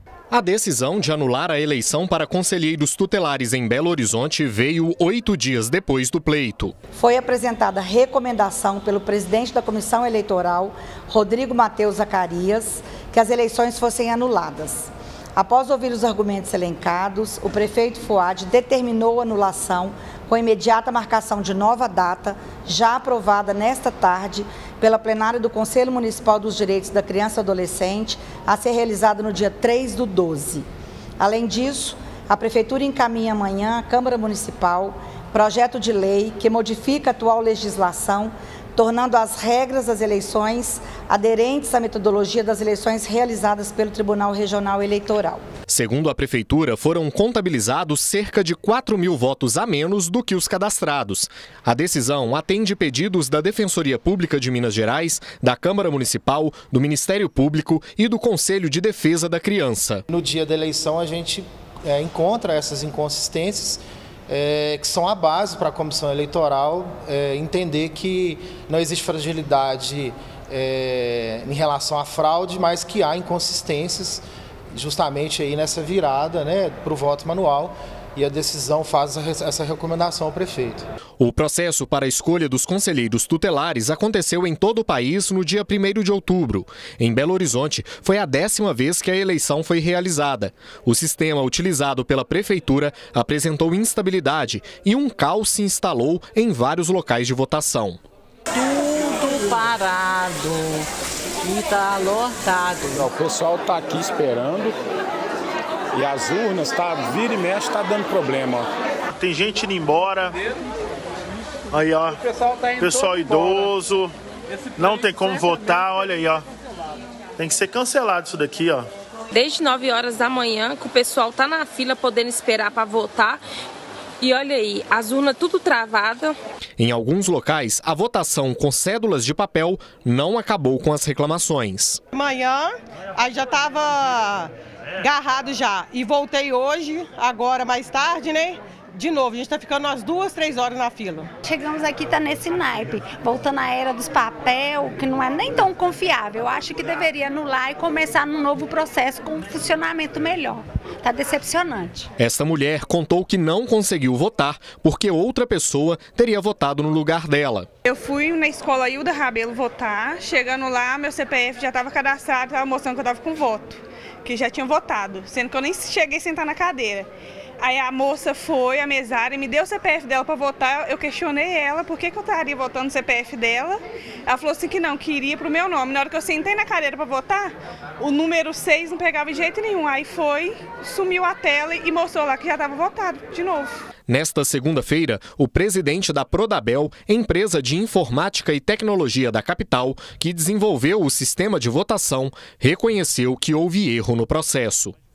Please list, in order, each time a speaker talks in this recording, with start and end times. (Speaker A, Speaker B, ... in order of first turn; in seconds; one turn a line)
Speaker A: 0.3-6.7
Speaker B: 6.9-30.6
Speaker B: 31.2-45.4
Speaker A: 45.7-60.0
Speaker C: 60.1-74.2
Speaker C: 74.7-80.9
Speaker A: 81.2-98.0
Speaker D: 98.5-100.9
Speaker D: 101.4-103.0
Speaker E: 103.0-104.8
Speaker E: 105.9-108.7
Speaker F: 109.2-110.3
Speaker F: 111.7-112.2
Speaker F: 112.7-114.1
Speaker F: 114.8-116.4
Speaker F: 117.4-118.9
Speaker G: 119.3-123.4
Speaker G: 124.2-126.4
Speaker A: 126.8-132.0
Speaker H: 132.1-141.3
Speaker I: 141.4-152.1
Speaker A: 152.2-157.7
Speaker J: 157.8-167.1
Speaker J: 167.6-183.7
Speaker A: 184.1-194.9